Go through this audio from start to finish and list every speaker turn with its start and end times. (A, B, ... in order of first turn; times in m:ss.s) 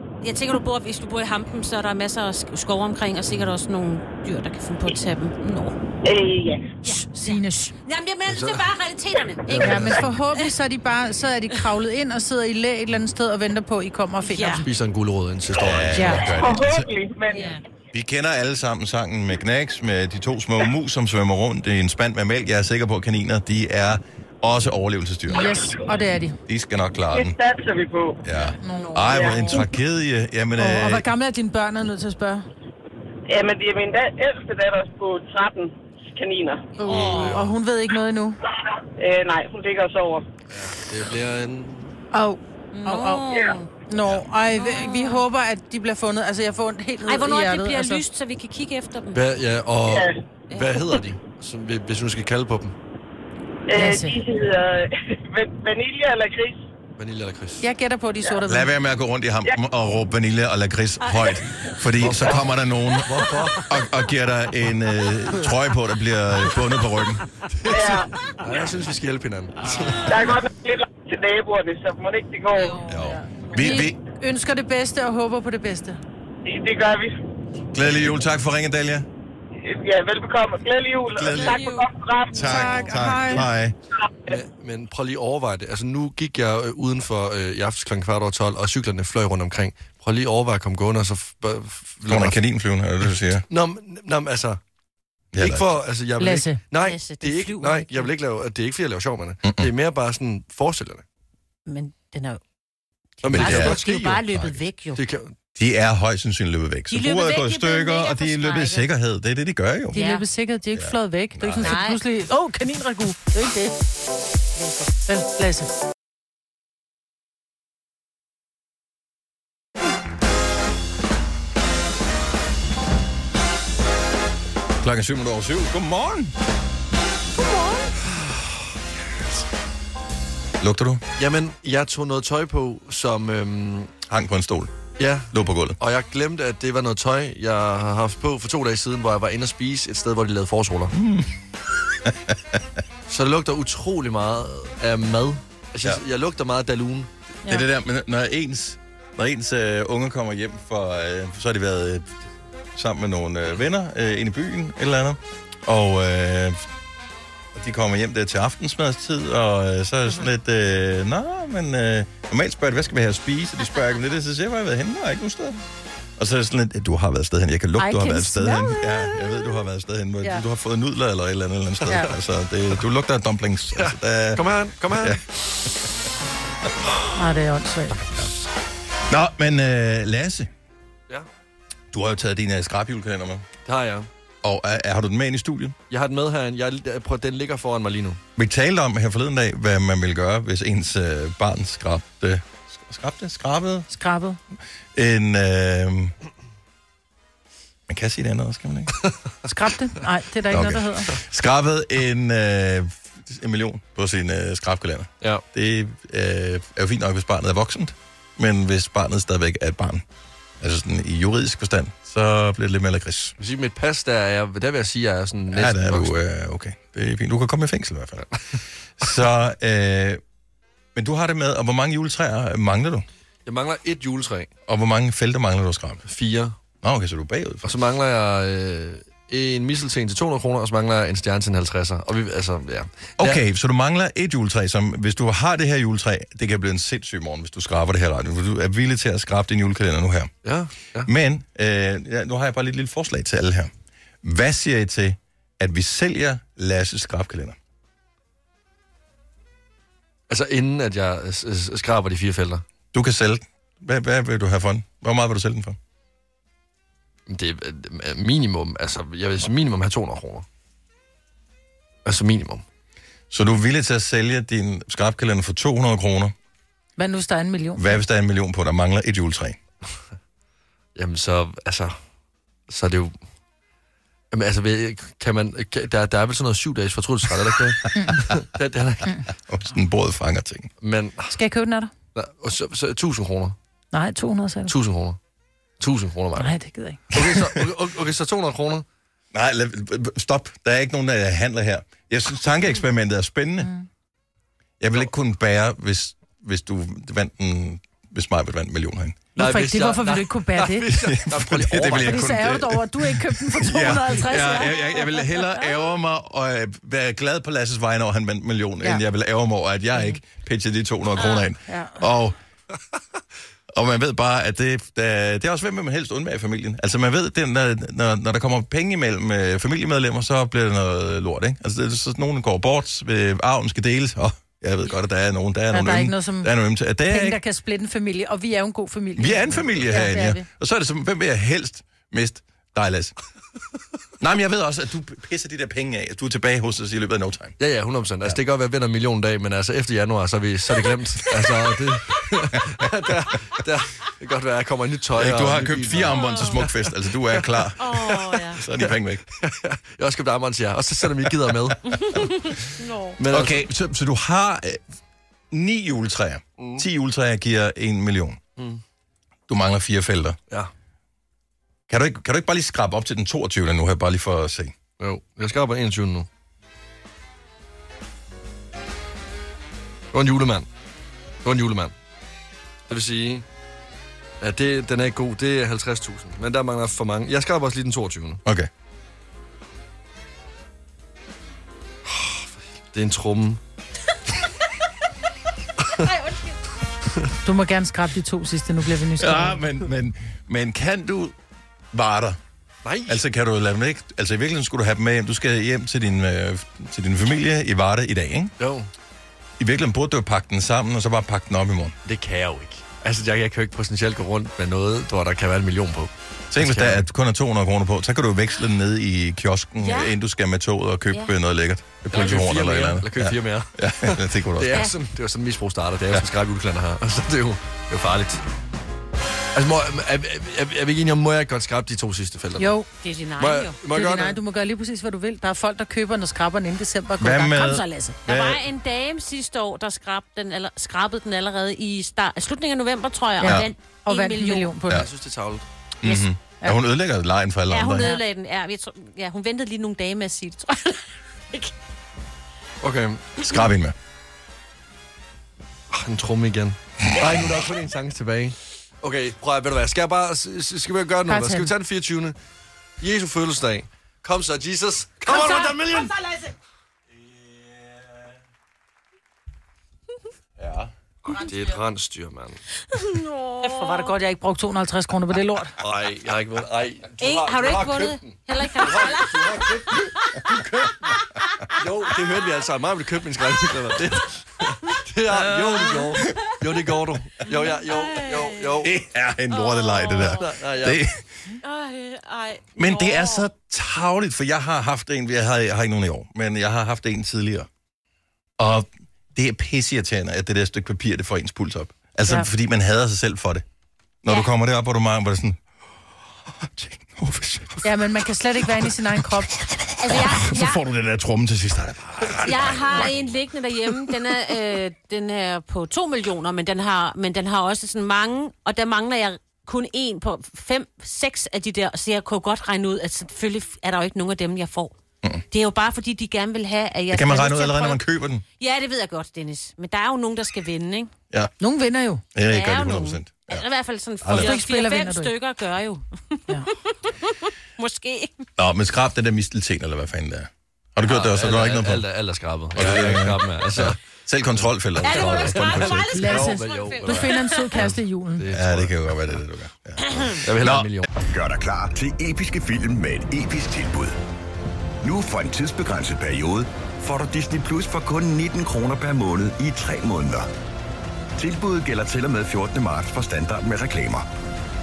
0:00.2-0:05.8 A
0:06.0-0:06.8 B
0:06.8-0:10.5 A
0:07.2-0:07.7 C
0:08.3-0:08.7 D
0:09.5-0:10.1 D
0:09.5-0:14.6 C
0:14.2-0:14.7 A
0:14.6-0:16.3 D
0:15.5-0:16.9 E
0:16.0-0:16.3 C
0:16.3-0:17.6 B
0:17.3-0:17.6 A
0:17.9-0:25.8 E
0:25.3-0:26.4 C
0:26.5-0:27.4 E
0:27.1-0:28.2 B
0:28.2-0:31.1 E
0:28.6-0:29.6 C
0:28.6-0:29.6 A
0:29.1-0:29.4 B
0:30.6-0:32.5 C
0:33.3-0:36.7 B
0:36.8-0:38.4 C
0:36.8-0:37.3 A
0:36.9-0:37.5 D
0:39.0-0:40.3 B
0:40.5-0:42.0 D
0:42.1-0:48.0 C
0:42.7-0:43.7 A
0:44.6-0:45.2 A
0:47.0-0:49.3 A
0:49.1-0:52.8 D
0:49.9-0:50.2 B
0:50.5-0:50.8 A
0:53.7-0:56.7 B
0:53.7-0:54.2 C
0:57.0-0:57.7 D
0:57.6-0:58.7 C
0:58.4-1:07.2 E
1:01.0-1:01.4 A
1:02.0-1:02.5 D
1:03.0-1:03.7 D
1:07.5-1:10.2 D
1:07.7-1:08.1 B
1:10.0-1:12.8 B
1:12.6-1:13.9 A
1:12.9-1:14.0 E
1:13.5-1:16.0 C
1:16.4-1:17.2 B
1:17.7-1:19.1 E
1:19.6-1:22.6 B
1:21.1-1:21.6 E
1:21.2-1:23.0 A
1:22.3-1:23.8 E
1:22.4-1:23.5 C
1:24.3-1:32.4 D
1:32.1-1:33.4 E
1:33.5-1:34.6 D
1:35.3-1:35.7 E
1:35.4-1:41.0 D
1:36.2-1:36.6 C
1:36.8-1:38.1 A
1:39.4-1:39.7 E
1:41.7-1:42.4 A
1:43.2-1:45.0 A
1:43.2-1:44.3 D
1:43.3-1:43.8 E
1:44.3-1:44.6 E
1:45.0-1:45.3 D
1:45.6-1:50.0 E
1:46.9-1:48.9 A
1:49.9-1:53.7 C
1:50.0-1:50.2 A
1:50.7-1:51.8 E
1:51.6-1:52.0 A
1:54.6-1:54.9 A
1:55.1-1:55.7 C
2:04.8-2:06.3 E
2:07.5-2:07.8 C
2:10.6-2:11.0 E
2:11.2-2:14.0 D
2:14.1-2:14.8 E
2:15.0-2:20.9 D
2:15.3-2:15.8 E
2:20.9-2:21.3 E
2:22.0-2:22.6 E
2:23.1-2:27.1 D
2:27.5-2:32.1 E
2:32.8-2:36.6 E
2:37.6-2:45.6 E
2:46.2-2:55.2 E
2:47.8-2:49.1 C
2:53.8-2:55.2 D
2:57.2-2:58.0 C
2:59.1-3:00.5 E
3:01.9-3:03.5 E
3:03.6-3:04.1 D
3:04.4-3:05.8 E
3:05.9-3:08.2 D
3:08.4-3:13.9 E
3:13.9-3:14.4 C
3:15.0-3:16.1 E
3:17.9-3:18.9 E
3:19.4-3:21.2 C
3:20.5-3:30.0 E
3:30.6-3:33.4 E
3:33.4-3:36.2 D
3:35.5-3:38.3 E
3:39.0-3:40.2 E
3:41.0-3:43.1 E
3:43.5-3:44.5 D
3:44.7-3:46.0 E
3:46.1-3:46.6 D
3:46.8-3:47.8 E
3:47.6-3:53.4 D
3:53.2-4:00.3 E
4:00.4-4:01.1 D
4:01.0-4:03.7 E
4:04.2-4:07.6 E
4:10.3-4:12.6 D
4:12.9-4:15.8 E
4:17.3-4:20.4 D
4:22.0-4:22.6 D
4:23.3-4:26.3 E
4:27.0-4:28.0 C
4:27.8-4:29.6 E
4:31.0-4:32.0 D
4:32.7-4:33.2 D
4:34.3-4:39.1 D
4:38.0-4:38.2 C
4:39.5-4:40.7 E
4:40.8-4:41.4 D
4:41.3-4:41.9 C
4:42.2-4:43.6 D
4:43.9-4:44.7 C
4:44.7-4:45.2 D
4:45.8-4:46.6 D
4:46.4-4:47.2 C
4:47.1-4:48.8 D
4:49.3-4:53.7 E
4:53.6-4:53.9 C
4:54.8-4:59.2 E
4:59.4-5:02.4 D
4:59.4-5:00.9 C
5:00.9-5:12.4 E
5:02.0-5:05.6 C
5:11.2-5:11.5 A
5:11.7-5:12.0 C
5:13.7-5:27.4 E
5:25.7-5:26.5 C
5:27.1-5:30.4 C
5:29.2-5:33.2 E
5:34.2-5:37.6 E
5:37.6-5:46.7 D
5:45.2-5:48.0 E
5:46.1-5:46.7 A
5:47.8-5:48.6 A
5:48.5-5:49.2 E
5:49.3-5:51.8 D
5:51.9-5:53.2 A
5:53.2-5:53.6 D
5:53.3-5:54.8 E
5:55.5-5:58.4 E
5:56.6-5:56.8 D
5:59.5-6:00.4 E
6:01.9-6:04.8 E
6:05.0-6:06.3 D
6:10.1-6:10.7 D
6:11.4-6:11.9 D
6:12.9-6:13.4 D
6:14.4-6:18.4 D
6:22.1-6:23.6 D
6:26.0-6:26.6 A
6:27.4-6:29.6 C
6:29.2-6:31.4 E
6:31.9-6:32.4 E
6:32.8-6:33.2 D
6:33.1-6:38.5 E
6:38.6-6:38.9 D
6:39.6-6:42.0 E
6:42.0-6:47.1 D
6:46.5-6:54.9 E
6:49.8-6:50.2 A
6:52.1-6:58.4 D
6:59.6-7:02.8 D
7:02.6-7:02.9 C
7:03.0-7:03.8 A
7:03.4-7:04.4 D
7:03.9-7:08.2 C
7:07.2-7:08.6 E
7:08.2-7:14.8 A
7:13.4-7:15.0 C
7:13.4-7:13.7 E
7:14.9-7:15.6 D
7:16.0-7:18.2 E
7:17.7-7:21.7 A
7:22.8-7:23.4 D
7:23.4-7:24.0 E
7:25.9-7:32.4 D
7:31.3-7:31.7 C
7:33.0-7:36.2 D
7:37.2-7:38.3 E
7:40.6-7:40.9 E
7:41.2-7:42.6 D
7:42.9-7:44.1 A
7:43.6-7:45.8 C
7:45.8-7:50.1 D
7:47.2-7:50.4 A
7:51.8-7:59.0 D
7:57.5-7:58.8 A
7:58.8-8:01.2 E
7:59.5-8:00.5 A
8:00.3-8:01.0 D
8:01.6-8:03.5 A
8:02.8-8:07.7 E
8:08.6-8:13.6 E
8:14.2-8:15.6 E
8:16.5-8:17.9 E
8:17.8-8:19.5 C
8:18.8-8:24.2 E
8:20.0-8:20.8 A
8:22.4-8:35.0 A
8:35.5-8:38.0 A
8:37.1-8:38.4 E
8:38.6-8:41.1 A
8:41.6-8:42.2 C
8:42.4-8:43.7 E
8:42.5-8:48.5 A
8:44.2-8:44.6 E
8:44.4-8:45.3 C
8:48.6-8:52.1 E
8:51.0-8:54.0 D
8:52.8-8:56.2 E
8:55.0-8:57.7 A
8:55.0-8:59.0 D
8:56.1-8:58.5 C
8:58.5-9:00.9 E
9:00.1-9:00.4 A
9:00.4-9:01.1 D
9:01.2-9:04.2 F
9:05.0-9:10.5 F
9:11.4-9:14.3 F